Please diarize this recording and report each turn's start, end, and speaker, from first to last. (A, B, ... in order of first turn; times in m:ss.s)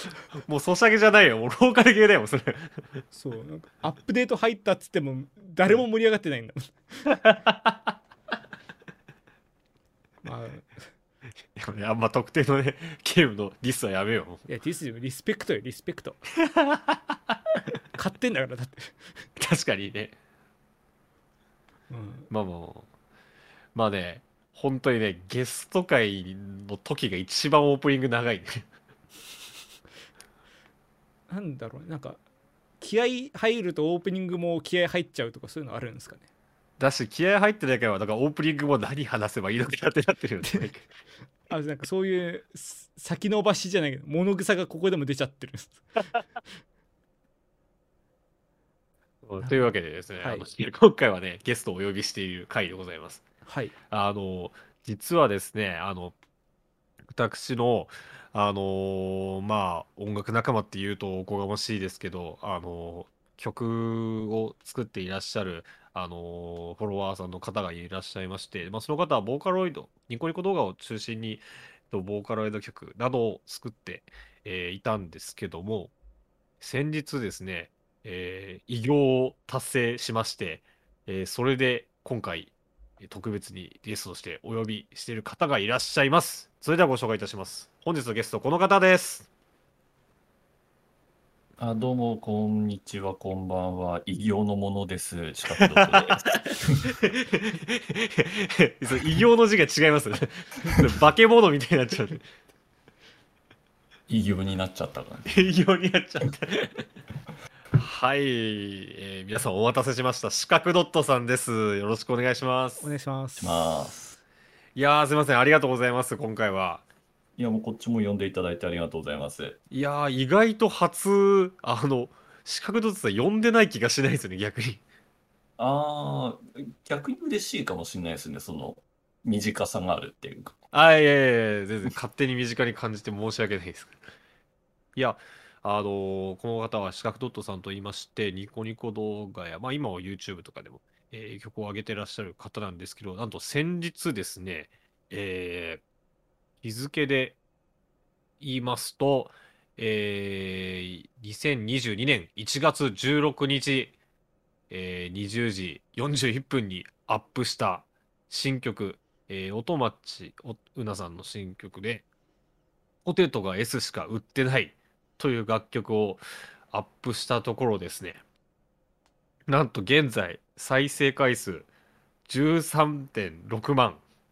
0:00.5-0:02.8 A
0:03.1-0:07.1 B
0:07.1-0:07.9 A
0:10.2-0:10.8 B
0:11.6-0:14.4 A
0:14.5-0:16.2 B
0:16.4-0:17.3 A
0:18.0-0:19.1 B
0:19.4-0:20.1 A
0:21.9-0:22.3 B
0:22.3-0:22.9 A
0:23.8-0:28.6 A
0:31.3-0:32.2 B
0:32.8-0:36.2 B
0:36.8-0:40.9 A
0:41.5-0:45.8 B
0:49.2-0:53.2 A
0:49.4-0:49.7 B
0:50.2-0:50.5 B
0:53.5-0:53.7 B
0:53.9-0:56.1 A
0:57.1-1:15.9 A
1:16.6-1:29.3 A
1:31.6-1:36.8 C
1:35.6-1:42.2 A
1:44.1-1:45.5 C
1:45.3-1:46.8 A
1:47.8-1:52.9 A
1:52.8-1:53.7 B
1:53.4-1:54.2 C
1:54.8-1:56.8 A
1:57.4-1:59.6 C
1:59.7-2:04.8 A
2:05.6-2:10.6 C
2:10.7-2:14.0 A
2:15.0-2:25.8 A
2:26.6-2:27.4 A
2:28.4-2:34.0 A
2:34.7-2:42.0 A
2:43.0-2:48.2 A
2:49.5-2:51.7 A
2:52.3-2:54.0 A